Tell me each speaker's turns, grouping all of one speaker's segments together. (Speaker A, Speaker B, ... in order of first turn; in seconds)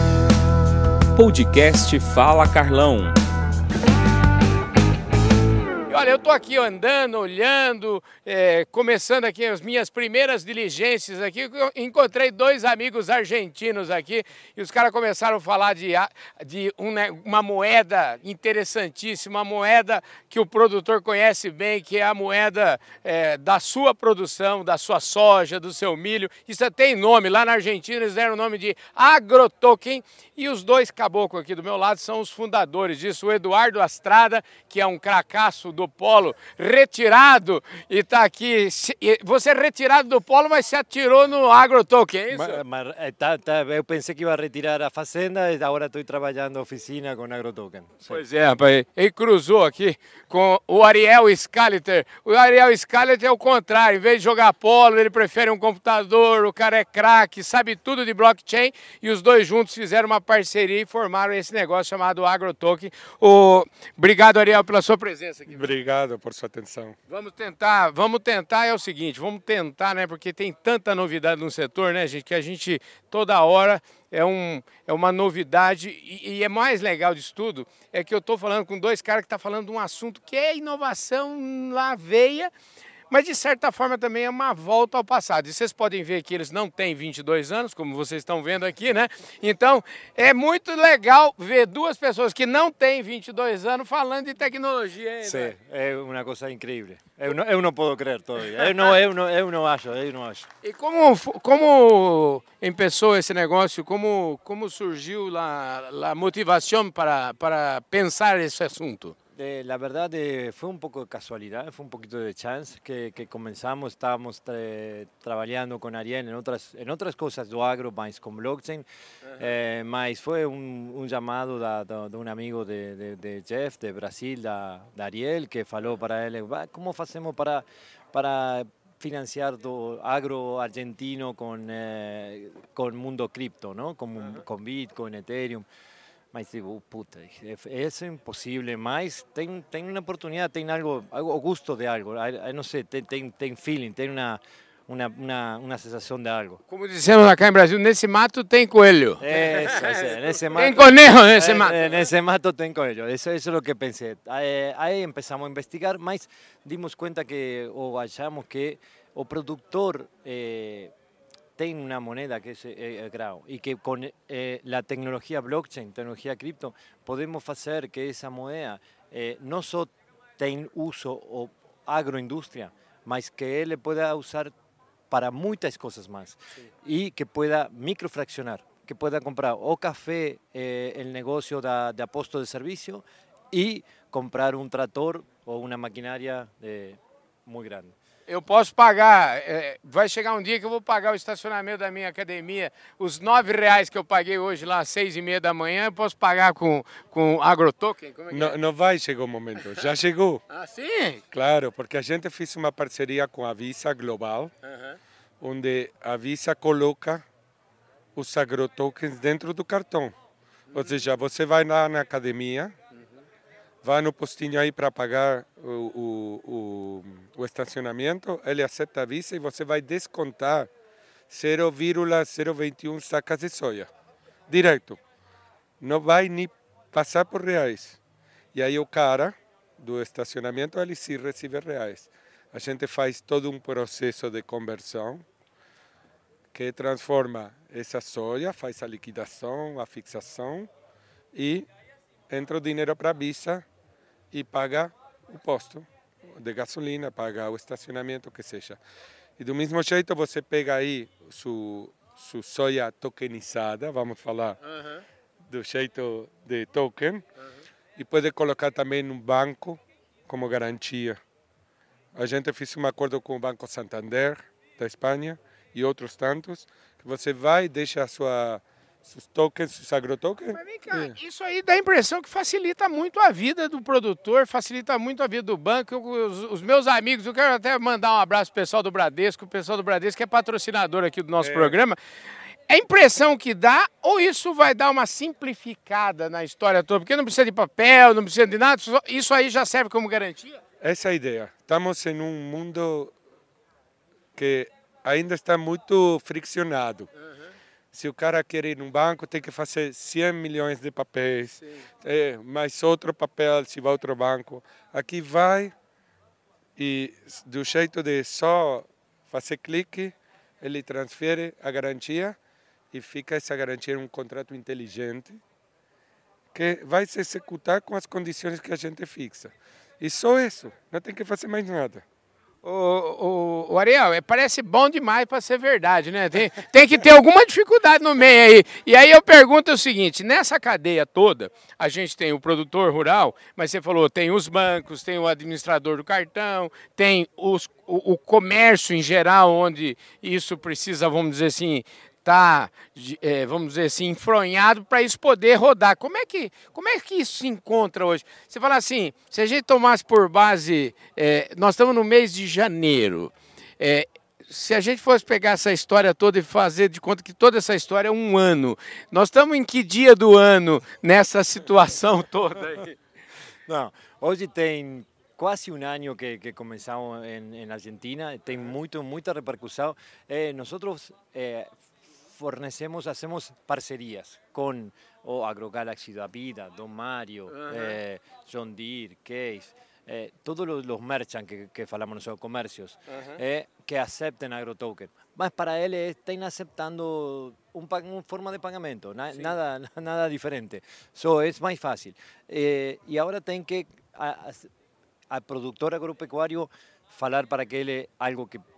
Speaker A: 1.1-3.2
Speaker B: 5.9-42.6, 48.1-65.7, 67.1-82.5, 83.1-95.5, 100.6-109.1, 119.3-119.5, 134.2-134.4, 146.7-152.0, 188.3-198.6, 199.6-199.8, 200.5-201.2, 204.6-205.0, 210.7-211.0, 254.6-255.0, 270.5-282.0, 282.7-290.6, 322.6-362.9, 377.5-378.0, 383.1-383.4
Speaker C: 42.3-48.2, 95.2-100.5, 109.3-118.8, 119.4-135.7, 136.3-146.6, 149.2-160.9, 161.6-174.5, 175.1-187.9, 363.7-394.7, 395.3-398.6
Speaker D: 65.5-67.0, 198.3-200.4, 201.3-204.5, 205.4-207.2, 208.1-210.2, 210.7-212.7, 213.8-220.7, 221.3-223.9, 224.5-225.0, 225.8-228.0, 228.5-235.2, 236.5-240.7, 241.3-241.7, 242.3-243.6, 244.3-248.8, 249.4-254.6, 255.4-257.2, 258.0-261.2, 262.1-271.1, 281.4-281.8, 290.8-293.1, 294.4-297.1, 297.9-305.7, 306.8-312.4, 312.9-315.4, 316.5-322.0